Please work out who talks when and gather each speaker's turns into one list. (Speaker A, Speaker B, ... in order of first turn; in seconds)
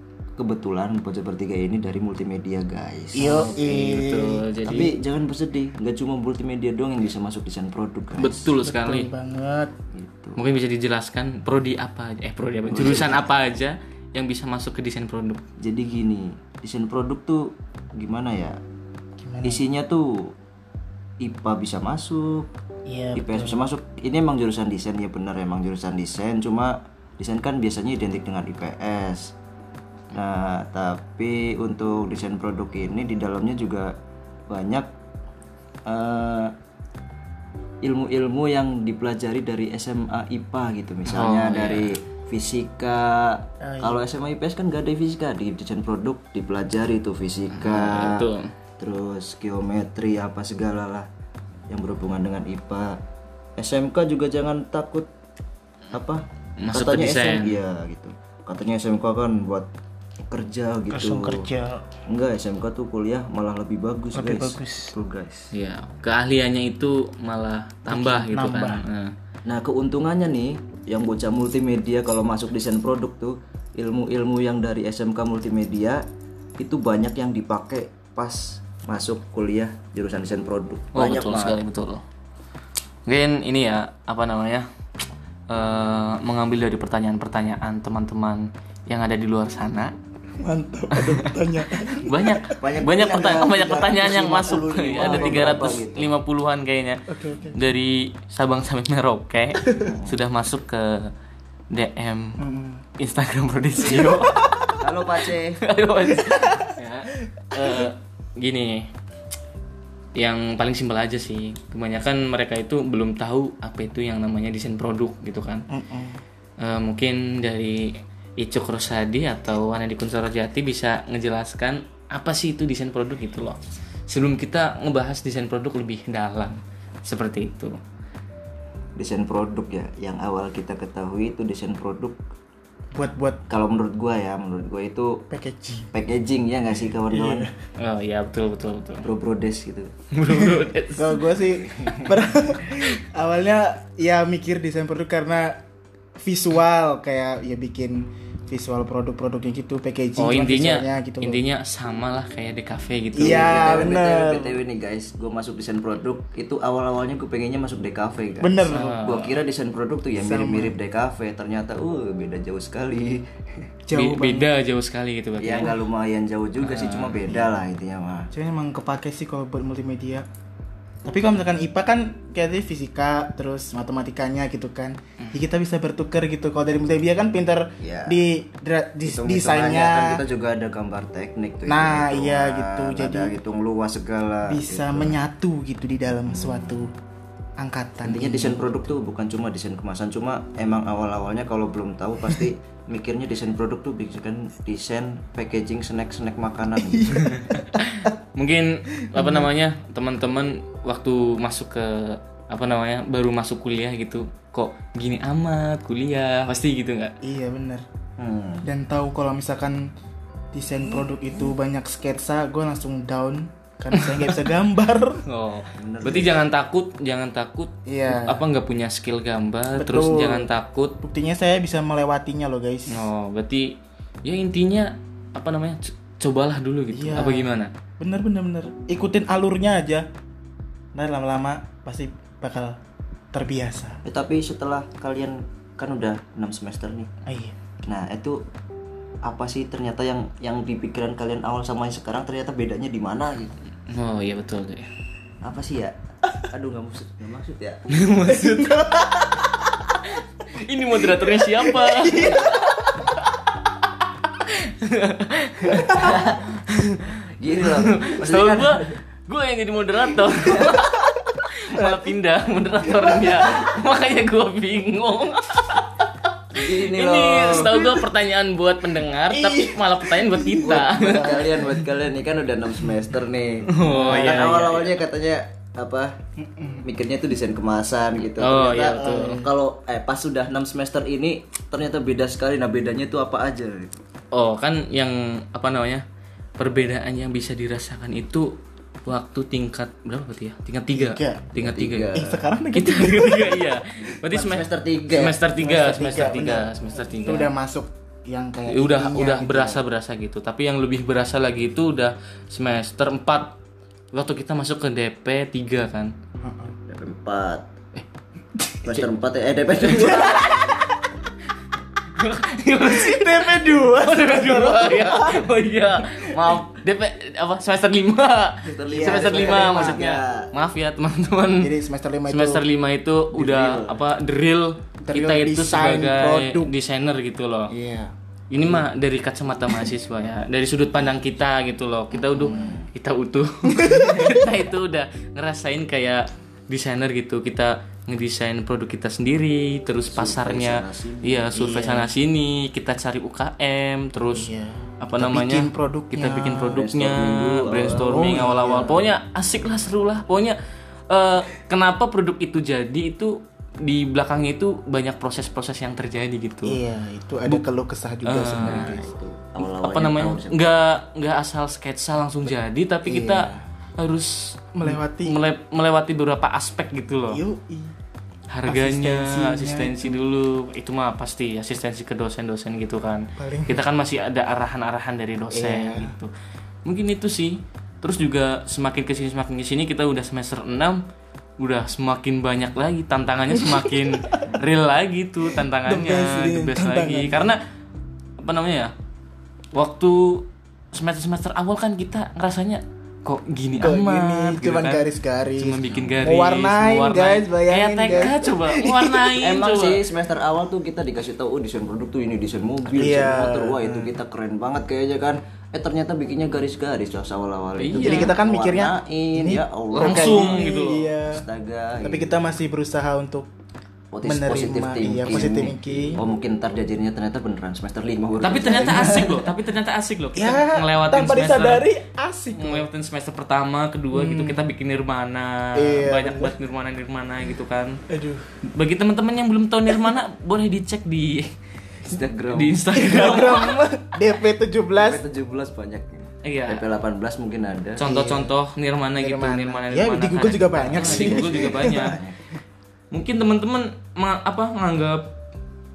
Speaker A: 0.4-3.5, 4.7-8.4, 9.9-10.4, 12.7-13.4, 15.6-18.6, 19.4-20.3, 21.2-22.5, 23.1-29.3, 30.1-34.9, 35.9-36.5, 37.8-51.1, 51.7-53.0, 53.6-55.1, 55.9-59.7, 60.3-61.5, 62.1-65.5, 69.5-76.0, 76.6-81.6, 92.5-96.1, 99.8-100.2, 104.8-105.6, 129.0-132.2, 133.5-135.2, 135.9-137.5, 139.0-139.9, 141.7-142.1, 153.2-163.3, 165.4-168.3, 177.8-178.2, 179.1-185.2, 186.3-186.8, 188.0-197.4, 208.2-208.6, 215.8-216.4, 234.0-237.1, 237.8-238.4, 239.2-243.6, 245.4-247.8, 252.1-252.5, 255.7-256.4, 257.4-258.9, 266.5-267.9, 270.6-276.2, 276.8-284.0, 291.6-292.4, 294.3-295.4, 306.9-307.7, 308.8-310.6, 318.6-320.5, 323.3-324.0, 332.3-332.9, 340.1-341.5, 346.7-349.0, 358.6-360.8, 398.1-398.3, 399.4-410.6, 411.3-412.3, 414.1-419.3, 432.0-433.2, 434.9-438.0, 440.9-442.4
Speaker B: 3.1-4.5, 8.4-9.7, 19.2-19.6, 22.9-23.6, 43.6-44.0, 60.9-61.9, 64.1-64.9, 67.9-68.8, 90.4-92.5, 95.0-95.5, 97.1-97.6, 99.6-99.9, 102.4-102.8, 104.0-104.7, 106.2-106.7, 107.5-107.8, 115.7-116.2, 132.9-133.4, 135.3-135.9, 137.1-137.5, 140.9-145.6, 146.2-151.4, 153.1-154.6, 158.4-158.9, 160.2-160.7, 163.8-164.5, 168.3-170.2, 171.0-180.2, 181.7-183.3, 184.5-186.9, 187.6-188.8, 196.9-197.8, 199.1-199.5, 207.2-207.8, 208.6-209.9, 210.5-215.2, 217.8-218.4, 219.7-220.5, 221.0-223.1, 226.9-230.1, 230.9-232.8, 233.3-234.0, 237.2-237.6, 248.3-249.8, 251.2-252.6, 269.3-271.7, 273.9-274.4, 276.4-276.8, 279.0-279.5, 290.9-291.5, 292.1-293.7, 295.6-299.8, 306.4-306.7, 309.9-310.9, 312.8-315.4, 318.8-320.0, 321.6-322.6, 325.0-326.7, 327.7-328.1, 332.4-332.8, 333.6-334.4, 341.5-342.1, 344.3-346.8, 348.0-349.0, 356.6-359.1, 363.1-363.6, 364.7-365.4, 367.3-367.9, 368.6-370.2, 373.4-373.8, 375.5-376.1, 383.6-384.5, 385.7-387.5, 393.8-399.3, 402.9-404.1, 407.9-411.4, 412.0-413.5, 414.2-416.2, 418.7-419.3, 420.3-422.9, 424.1-424.7, 425.8-426.6, 428.1-428.5, 432.9-435.2, 438.0-438.5, 439.2-442.2
Speaker C: 3.2-4.9, 8.2-9.1, 10.4-15.4, 41.1-41.9, 47.5-48.5, 56.6-57.5, 65.5-69.1, 80.9-82.0, 83.0-84.7, 85.5-89.9, 91.0-97.0, 97.5-101.1, 101.7-102.4, 103.0-104.5, 105.6-108.9, 110.2-115.6, 116.6-127.8, 137.8-139.1, 140.1-141.2, 150.2-153.8, 158.7-159.4, 163.9-165.7, 166.6-167.2, 197.2-207.1, 213.9-214.4, 215.2-221.0, 222.9-227.7, 243.9-244.9, 247.9-248.9, 250.0-253.1, 254.2-271.6, 273.7-274.9, 278.4-279.4, 284.3-286.0, 286.6-292.1, 292.7-297.5, 298.7-303.6, 304.1-306.1, 309.9-310.8, 312.1-321.7, 322.3-327.7, 328.5-344.5, 345.0-350.6, 351.1-356.8, 358.2-358.9, 359.6-367.4, 368.5-376.3, 376.8-381.0, 381.6-387.6, 388.4-388.9, 389.7-395.0, 395.6-400.0, 407.8-408.3, 410.0-411.1, 418.4-421.8, 422.5-428.0, 428.7-431.5, 432.5-433.8, 436.4-436.8, 438.0-442.1, 443.1-445.3